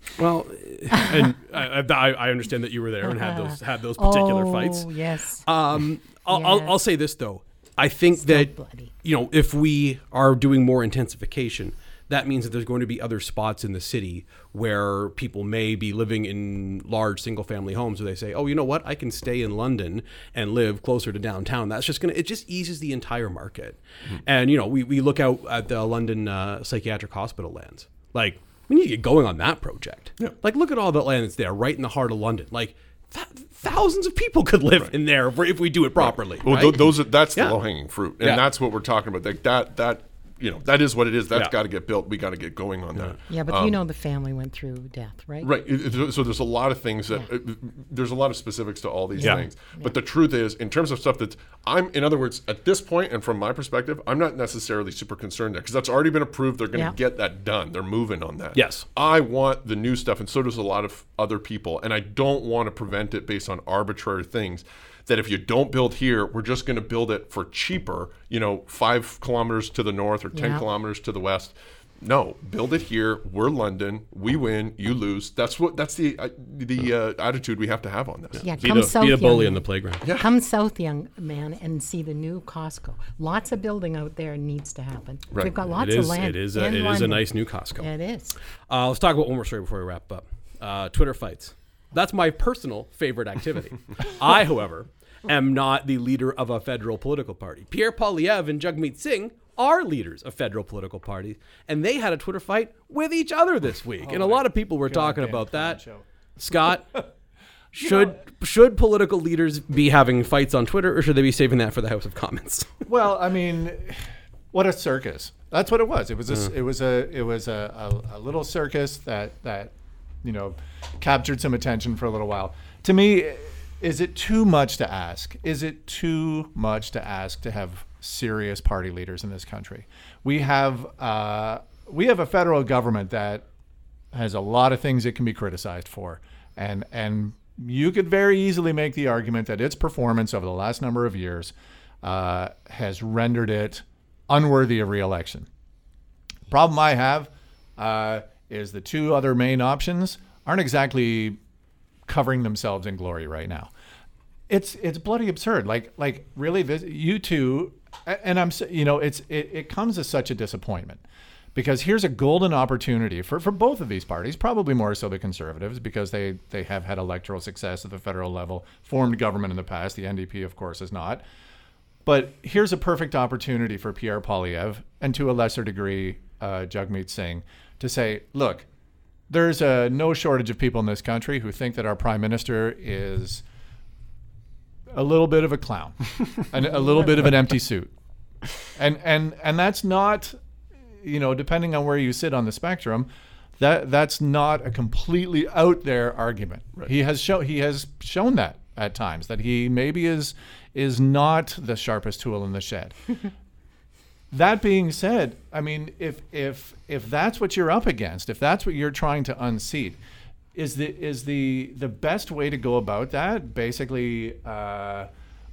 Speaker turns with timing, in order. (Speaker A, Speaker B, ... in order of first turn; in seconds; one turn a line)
Speaker A: 0.2-4.9
Speaker B: 0.9-1.3
Speaker B: 3.0-5.4
Speaker A: 5.4-8.5
Speaker B: 6.3-6.8
Speaker B: 8.2-8.9
Speaker A: 9.0-37.6
Speaker C: 36.0-43.8
Speaker B: 43.3-45.5
Speaker C: 45.4-78.8
Speaker B: 49.2-49.9
Speaker A: 49.2-49.5
Speaker A: 58.5-58.8
Speaker B: 70.3-70.7
Speaker A: 78.3-80.0
Speaker B: 78.4-87.2
Speaker C: 80.0-80.3
Speaker A: 85.7-87.9
Speaker B: 87.8-88.3
Speaker A: 88.7-105.8
Speaker D: 104.0-106.7
Speaker A: 106.4-107.0
Speaker D: 107.7-108.2
Speaker A: 107.7-112.8
Speaker D: 112.9-133.4
Speaker D: 134.1-145.5
Speaker D: 146.5-151.4
Speaker D: 152.1-153.7
Speaker D: 154.5-161.0
Speaker D: 161.5-171.2
Speaker D: 172.0-178.7
Speaker D: 179.3-183.4
Speaker D: 184.9-187.9
Speaker D: 188.7-190.4
Speaker D: 191.0-193.1
Speaker D: 193.6-203.2
Speaker D: 204.3-210.0
Speaker D: 210.5-215.1